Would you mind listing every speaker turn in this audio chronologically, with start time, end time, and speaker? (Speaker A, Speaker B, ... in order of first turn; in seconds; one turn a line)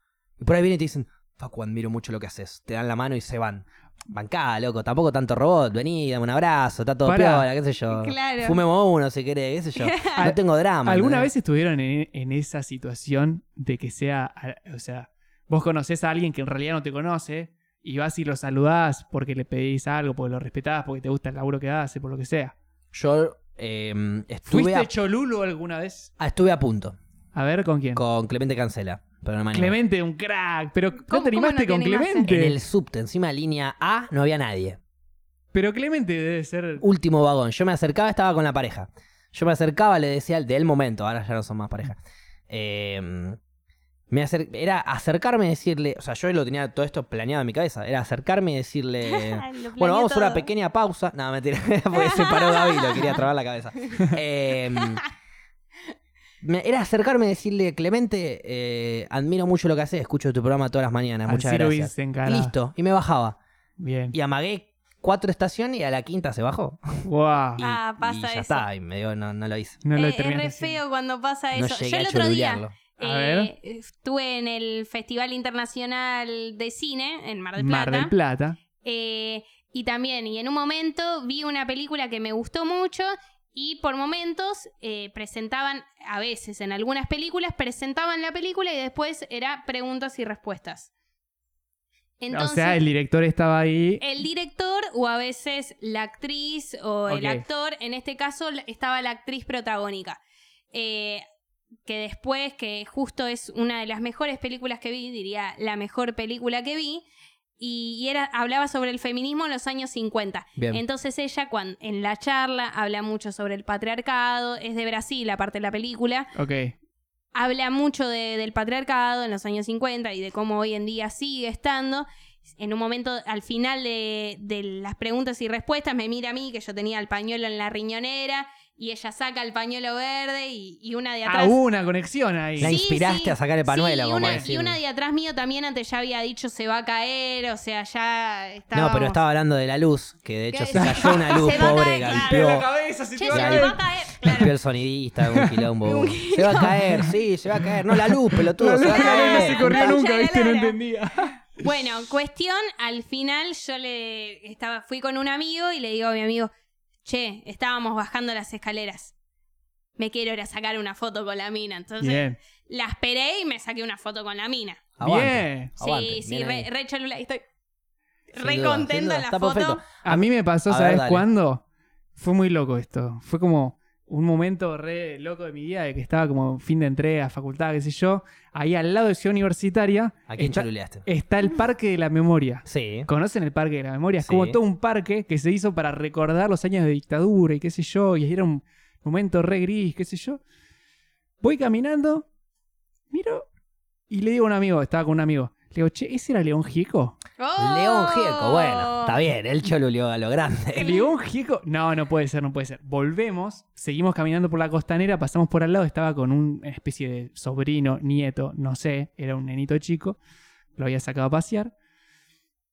Speaker A: 0.4-11.3
Speaker B: 7.0-7.5
Speaker C: 7.9-8.6
Speaker C: 9.8-10.2
Speaker B: 10.2-22.6
Speaker A: 22.9-24.9
Speaker B: 24.5-26.1
Speaker A: 26.2-27.0
Speaker B: 27.3-28.0
Speaker A: 27.9-29.8
Speaker B: 29.5-32.6
Speaker C: 31.1-32.3
Speaker A: 32.3-34.8
Speaker B: 35.5-36.8
Speaker A: 36.8-43.4
Speaker A: 44.1-55.0
Speaker C: 49.0-50.5
Speaker C: 51.9-53.2
Speaker C: 54.8-55.0
Speaker A: 56.4-63.4
Speaker B: 61.3-62.5
Speaker B: 63.8-64.2
Speaker A: 64.1-67.0
Speaker B: 67.0-67.6
Speaker A: 67.6-69.8
Speaker C: 67.6-68.7
Speaker B: 69.8-70.8
Speaker C: 70.0-78.1
Speaker A: 71.5-72.8
Speaker B: 73.0-73.5
Speaker B: 77.6-78.6
Speaker C: 78.8-90.9
Speaker C: 92.2-92.8
Speaker B: 92.3-94.0
Speaker C: 94.0-100.2
Speaker B: 97.1-97.5
Speaker C: 100.7-101.2
Speaker C: 101.9-107.0
Speaker C: 107.6-116.3
Speaker A: 110.6-110.8
Speaker B: 116.3-116.8
Speaker C: 117.3-122.1
Speaker C: 122.6-131.6
Speaker B: 131.3-132.8
Speaker A: 132.6-134.8
Speaker C: 132.6-139.2
Speaker B: 134.2-134.5
Speaker A: 138.7-142.7
Speaker C: 140.5-142.6
Speaker B: 140.8-144.5
Speaker C: 143.2-144.5
Speaker A: 143.3-150.0
Speaker B: 145.3-145.7
Speaker C: 145.8-146.8
Speaker B: 146.5-151.7
Speaker C: 148.8-150.8
Speaker C: 151.6-156.5
Speaker C: 157.1-159.1
Speaker C: 160.0-164.9
Speaker B: 162.0-162.4
Speaker A: 165.0-166.7
Speaker B: 165.0-165.7
Speaker C: 165.8-167.4
Speaker C: 168.3-169.8
Speaker A: 168.3-171.3
Speaker B: 170.0-171.6
Speaker B: 172.2-190.4
Speaker A: 180.3-181.1
Speaker A: 182.7-183.1
Speaker A: 184.2-184.6
Speaker B: 191.4-192.3
Speaker B: 193.1-193.5
Speaker B: 194.1-197.2
Speaker C: 197.4-199.2
Speaker A: 197.6-200.9
Speaker C: 200.8-201.1
Speaker B: 200.8-210.2
Speaker B: 210.8-211.7